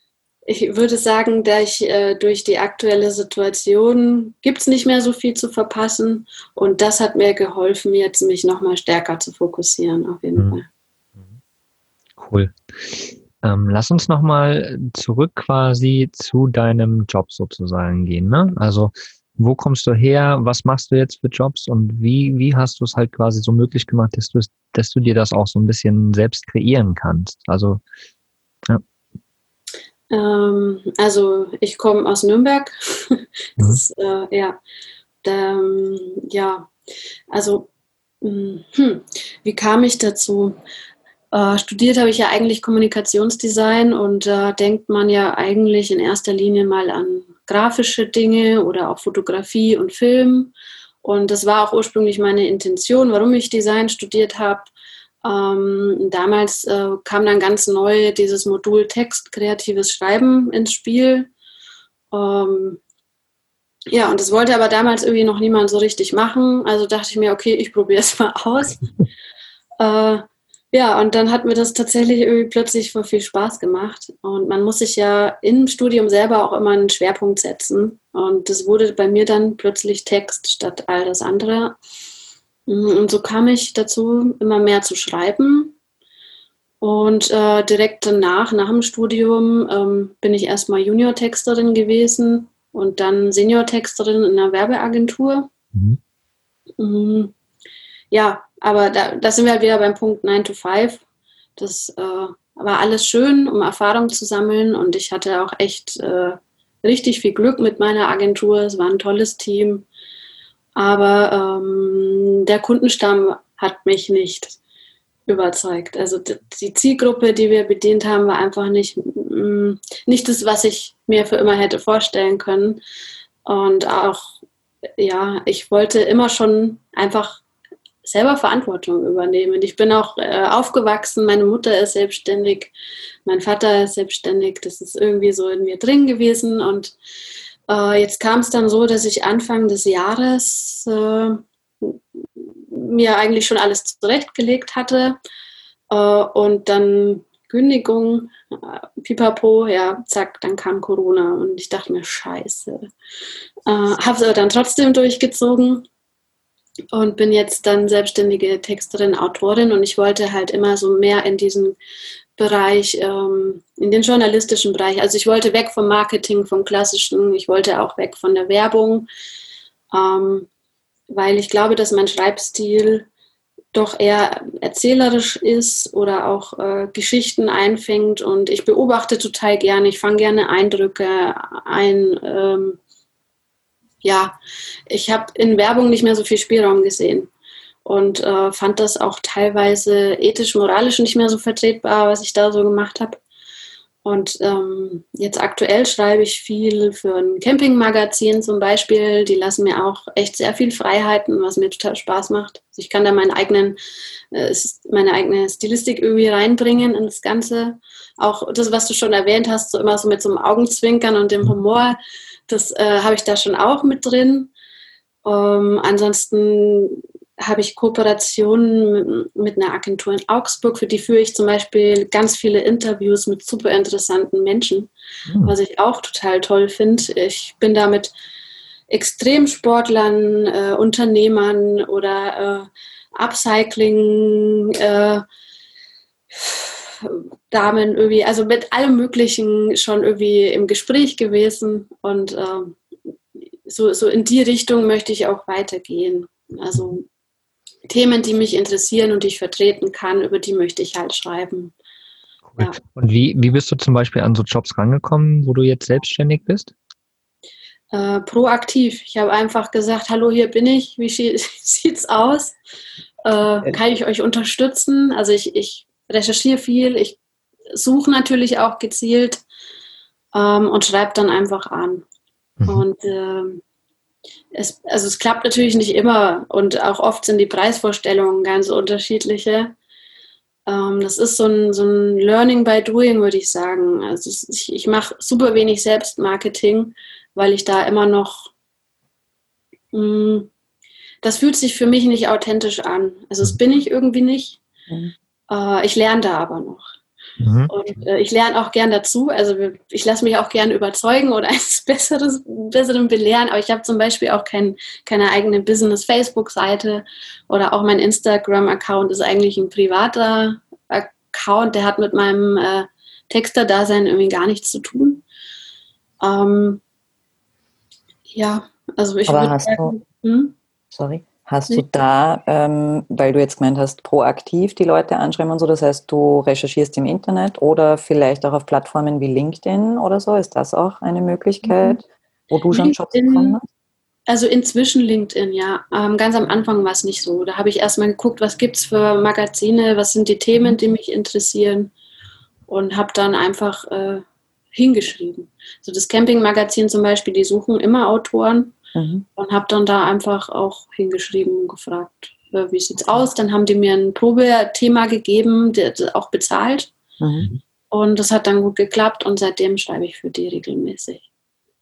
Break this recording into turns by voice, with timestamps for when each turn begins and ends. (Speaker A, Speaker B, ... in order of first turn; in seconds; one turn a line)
Speaker A: 0.5-10.6
Speaker B: 10.3-10.6
Speaker B: 12.2-27.8
Speaker A: 30.1-34.6
Speaker A: 35.2-36.7
Speaker A: 37.3-37.7
Speaker A: 38.2-40.6
Speaker A: 41.3-50.5
Speaker A: 51.0-54.7
Speaker A: 55.2-61.3
Speaker A: 62.1-62.8
Speaker A: 63.9-68.8
Speaker A: 69.8-81.8
Speaker A: 82.7-85.8
Speaker A: 86.8-95.5
Speaker A: 96.8-97.3
Speaker A: 98.1-101.0
Speaker A: 101.6-109.9
Speaker A: 110.8-114.6
Speaker A: 115.3-122.8
Speaker A: 123.4-124.4
Speaker A: 125.0-127.4
Speaker A: 128.0-132.7
Speaker A: 133.2-136.9
Speaker A: 137.7-145.2
Speaker A: 145.9-152.9
Speaker A: 153.7-155.8
Speaker A: 156.9-161.8
Speaker A: 162.4-169.1
Speaker A: 169.9-170.5
Speaker A: 171.1-173.1
Speaker A: 173.7-182.8
Speaker A: 184.0-184.4
Speaker A: 184.9-187.3
Speaker A: 187.8-193.2
Speaker A: 194.0-203.8
Speaker A: 204.3-214.5
Speaker A: 215.2-224.9
Speaker B: 225.3-225.5
Speaker A: 225.4-228.1
Speaker A: 228.9-235.2
Speaker A: 236.3-242.8
Speaker A: 243.7-247.0
Speaker A: 247.9-251.7
Speaker B: 252.5-256.7
Speaker A: 257.9-262.6
Speaker A: 263.2-267.2
Speaker A: 267.7-269.4
Speaker A: 270.3-272.0
Speaker B: 272.6-272.9
Speaker A: 272.7-273.6
Speaker A: 274.5-279.7
Speaker A: 280.6-288.5
Speaker A: 289.9-290.5
Speaker A: 291.2-294.6
Speaker C: 294.9-295.1
Speaker A: 295.5-296.9
Speaker B: 297.4-297.7
Speaker A: 297.7-315.2
Speaker A: 316.2-316.8
Speaker A: 318.3-320.5
Speaker C: 319.3-319.9
Speaker C: 320.9-333.6
Speaker A: 331.6-332.0
Speaker A: 332.7-333.6
Speaker A: 334.3-341.9
Speaker A: 342.7-344.2
Speaker A: 344.7-348.7
Speaker C: 348.9-349.2
Speaker A: 349.4-356.9
Speaker C: 357.2-357.5
Speaker A: 357.9-361.2